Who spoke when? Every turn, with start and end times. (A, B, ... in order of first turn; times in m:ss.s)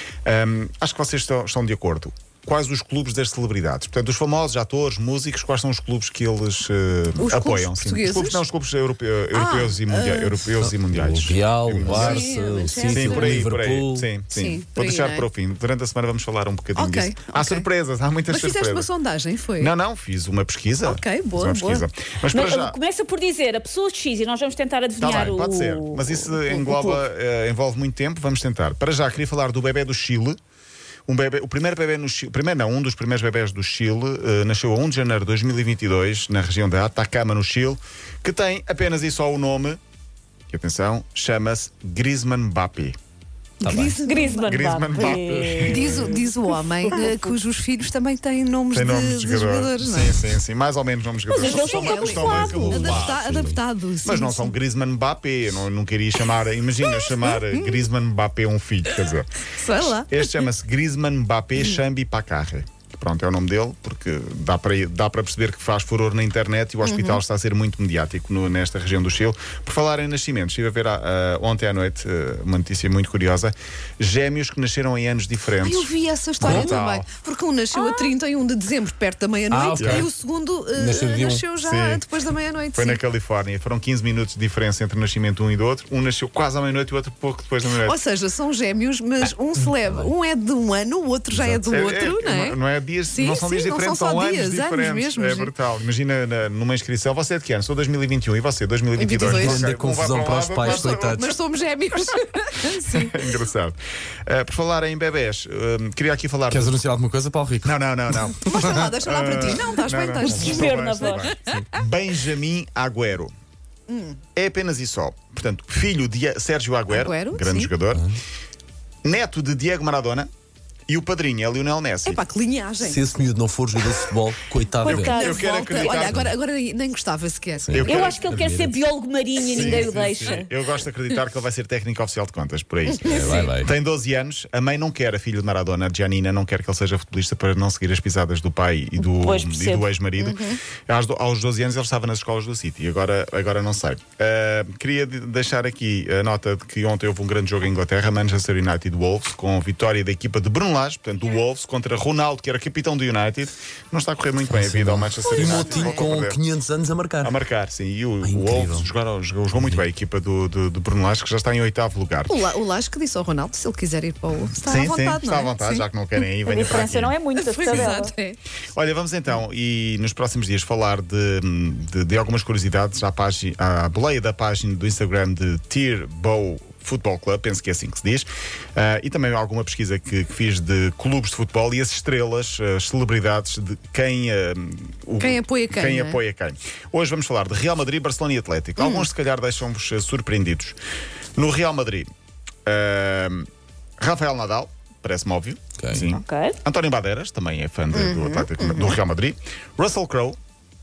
0:00.2-0:12.3 A
0:07.2-0:08.4 B
0:09.3-0:10.5 B
0:10.6-0:14.1 C
0:11.8-0:13.5 B
0:12.8-0:18.9 A
0:14.3-0:15.3 B
0:16.8-0:17.7 B
0:18.3-0:19.7 B
0:19.6-0:22.8 A
0:20.8-0:21.9 B
0:22.3-0:27.0 D
0:25.0-0:30.4 A
0:31.1-0:39.8 A
0:40.5-0:43.0 A
0:43.6-0:44.5 B
0:43.6-0:44.0 C
0:44.0-0:47.2 D
0:44.5-0:46.2 A
0:45.6-0:50.2 B
0:48.7-0:53.5 A
0:51.3-0:52.9 D
0:51.3-0:54.5 B
0:52.7-0:53.6 C
0:54.0-1:17.1 A
0:56.8-0:57.9 B
0:59.5-1:00.4 B
1:06.8-1:07.2 B
1:15.6-1:23.0 B
1:16.4-1:16.7 C
1:19.5-1:20.1 C
1:19.8-1:20.1 A
1:20.8-1:21.4 C
1:21.6-1:22.0 A
1:22.8-1:28.0 A
1:27.6-1:32.6 B
1:31.3-1:31.6 C
1:31.6-1:41.3 A
1:33.1-1:35.5 B
1:39.0-1:39.7 B
1:39.2-1:41.3 C
1:40.6-1:43.3 B
1:42.9-1:46.8 A
1:46.5-1:48.9 C
1:47.6-1:53.3 A
1:48.4-1:51.6 B
1:50.3-1:50.6 C
1:50.3-1:51.3 D
1:53.9-1:54.2 B
1:54.4-1:58.1 A
1:56.9-1:57.7 B
1:59.0-2:00.3 A
2:00.9-2:02.2 A
2:02.0-2:03.2 B
2:02.8-2:05.2 C
2:04.8-2:05.9 D
2:05.1-2:06.3 A
2:05.1-2:08.1 B
2:07.6-2:08.8 C
2:07.7-2:08.4 A
2:07.8-2:10.5 D
2:09.4-2:36.4 A
2:09.6-2:09.9 C
2:12.9-2:13.5 B
2:13.0-2:13.7 C
2:19.2-2:19.9 D
2:20.2-2:20.6 B
2:34.5-2:37.4 C
2:35.3-2:36.1 B
2:37.2-2:42.4 A
2:38.2-2:38.9 C
2:39.5-2:39.8 C
2:42.3-2:45.9 B
2:44.6-2:47.2 A
2:46.4-2:48.1 D
2:47.4-2:48.4 B
2:47.7-2:48.0 A
2:48.8-3:10.8 A
3:05.2-3:06.2 B
3:08.8-3:09.1 B
3:11.4-3:12.1 A
3:12.7-3:13.5 A
3:14.0-3:20.4 A
3:15.8-3:16.0 C
3:16.1-3:16.6 D
3:17.9-3:19.0 B